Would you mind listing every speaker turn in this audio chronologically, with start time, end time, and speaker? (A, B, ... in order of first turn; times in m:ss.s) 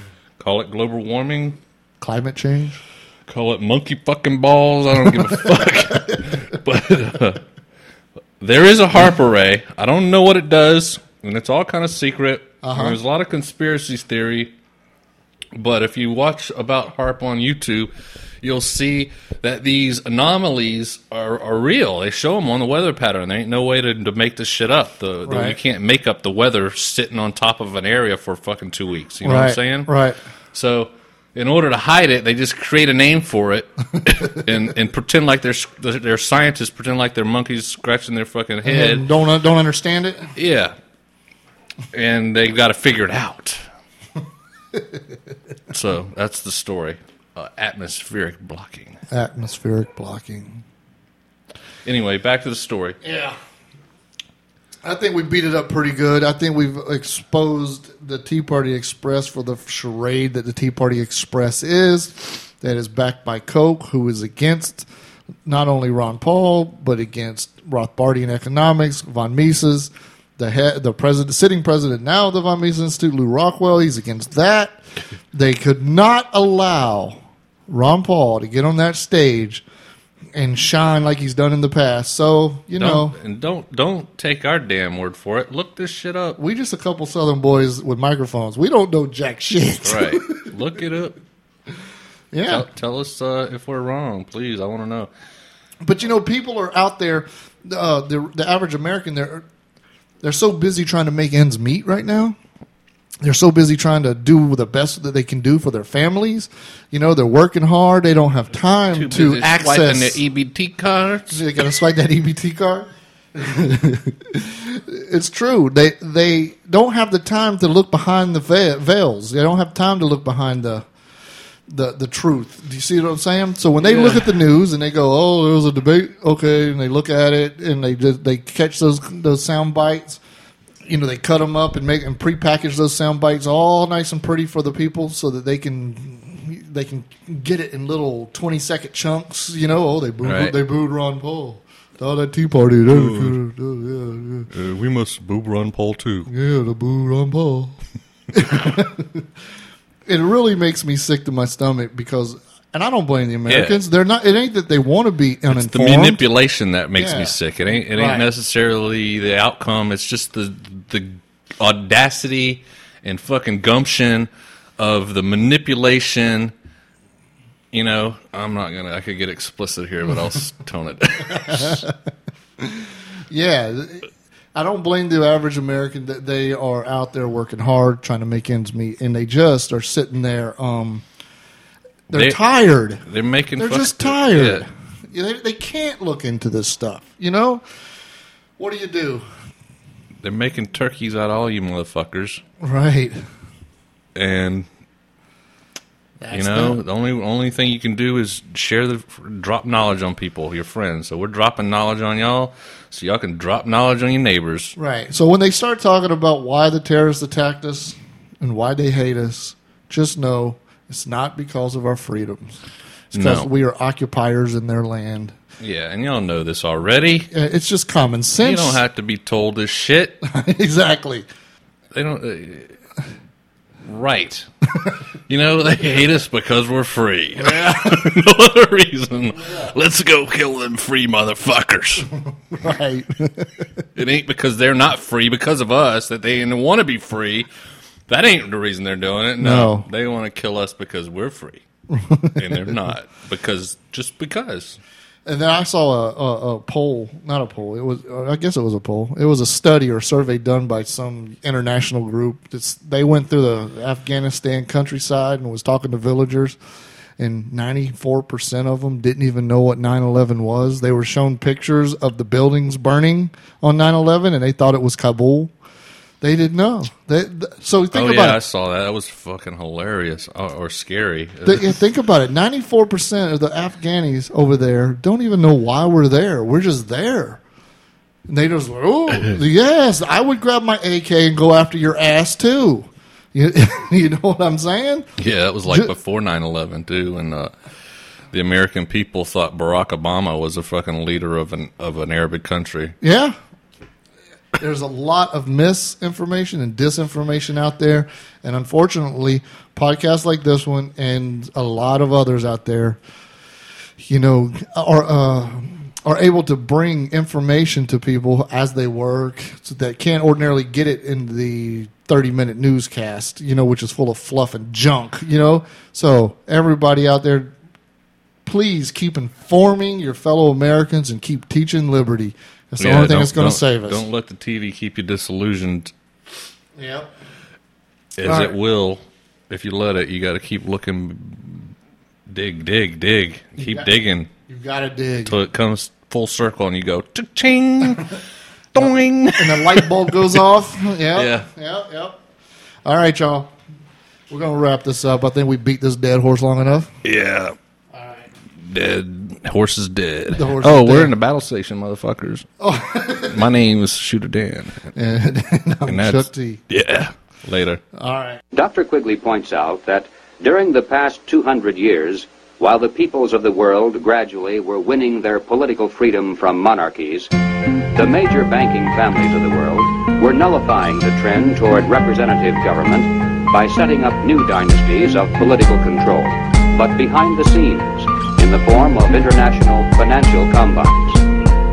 0:00.4-0:01.6 A
0:02.0-0:02.8 B
0:03.2-0:07.4 A
0:05.5-0:06.3 B
0:08.4-0:14.5 A
0:12.6-0:13.0 B
0:15.5-0:17.9 A
0:18.4-0:29.9 A
0:25.2-0:25.6 B
0:29.2-0:30.2 B
0:30.5-0:39.1 A
0:38.6-0:40.3 B
0:40.4-0:40.7 A
0:41.9-0:43.7 A
0:45.7-0:49.0 A
0:49.1-0:50.6 B
0:51.8-0:53.0 A
0:53.0-0:53.4 B
0:54.8-1:04.9 B
1:05.4-1:14.8 B
1:15.3-1:17.2 B
1:17.7-1:19.6 B
1:20.3-1:23.1 B
1:22.8-1:26.4 A
1:26.4-1:30.5 B
1:29.8-1:31.2 A
1:32.3-1:32.6 B
1:32.5-1:35.1 A
1:35.8-1:39.4 B
1:40.2-1:42.4 B
1:43.2-1:50.2 B
1:48.9-1:51.6 A
1:51.3-2:00.8 B
2:01.7-2:10.2 B
2:03.8-2:04.3 A
2:10.8-2:24.5 B
2:20.2-2:20.6 A
2:22.9-2:23.4 A
2:24.5-2:26.3 A
2:26.3-2:27.7 B
2:28.3-2:29.2 B
2:30.1-2:36.2 B
2:33.5-2:33.8 A
2:35.5-2:46.5 A
2:36.9-2:38.2 B
2:47.7-2:51.8 A
2:51.4-2:51.9 B
2:52.6-3:01.0 B
3:02.1-3:03.0 B
3:02.1-3:02.4 A
3:03.0-3:04.6 A
3:03.6-3:07.6 B
3:08.6-3:09.2 B
3:10.2-3:12.4 A
3:12.6-3:13.2 B
3:14.1-3:14.7 A
3:16.2-3:16.8 B
3:16.3-3:24.7 A
3:24.8-3:32.6 B
3:33.1-3:35.4 B
3:33.1-3:33.5 A
3:35.6-3:37.3 A
3:37.3-3:38.8 B
3:38.4-3:40.2 A
3:40.2-3:41.2 B
3:41.9-3:42.8 A
3:43.8-3:44.5 A
3:45.3-3:52.1 A
3:47.4-3:48.1 B
3:49.4-3:49.7 B
3:52.5-3:53.7 B
3:53.9-3:57.5 A
3:58.1-4:01.6 A
3:59.4-3:59.9 B
4:01.9-4:02.7 B
4:02.3-4:04.8 A
4:05.2-4:16.6 B
4:17.2-4:25.5 B
4:26.2-4:28.4 B
4:27.9-4:31.8 A
4:31.4-4:37.4 B
4:38.3-4:45.1 B
4:45.2-4:47.5 A
4:48.3-4:52.9 A
4:53.0-4:53.4 B
4:54.6-5:03.0 B
5:04.0-5:17.5 B
5:18.4-5:24.0 B
5:22.8-5:25.9 A
5:26.8-5:27.1 B
5:28.2-5:31.7 A
5:28.2-5:28.6 B
5:32.3-5:34.3 A
5:33.6-5:33.9 B
5:34.5-5:35.4 B
5:35.2-5:38.1 A
5:38.7-5:40.4 A
5:39.4-5:42.2 B
5:41.1-5:41.5 A
5:42.8-5:43.5 B
5:44.3-5:46.9 B
5:47.0-5:47.6 A
5:47.9-5:48.3 B
5:48.6-5:52.5 A
5:50.3-5:51.1 B
5:52.6-5:53.4 B
5:53.3-5:54.9 A
5:54.9-5:56.6 B
5:55.8-5:57.8 A
5:57.9-5:58.4 B
5:58.5-6:07.3 C
6:07.9-6:21.2 C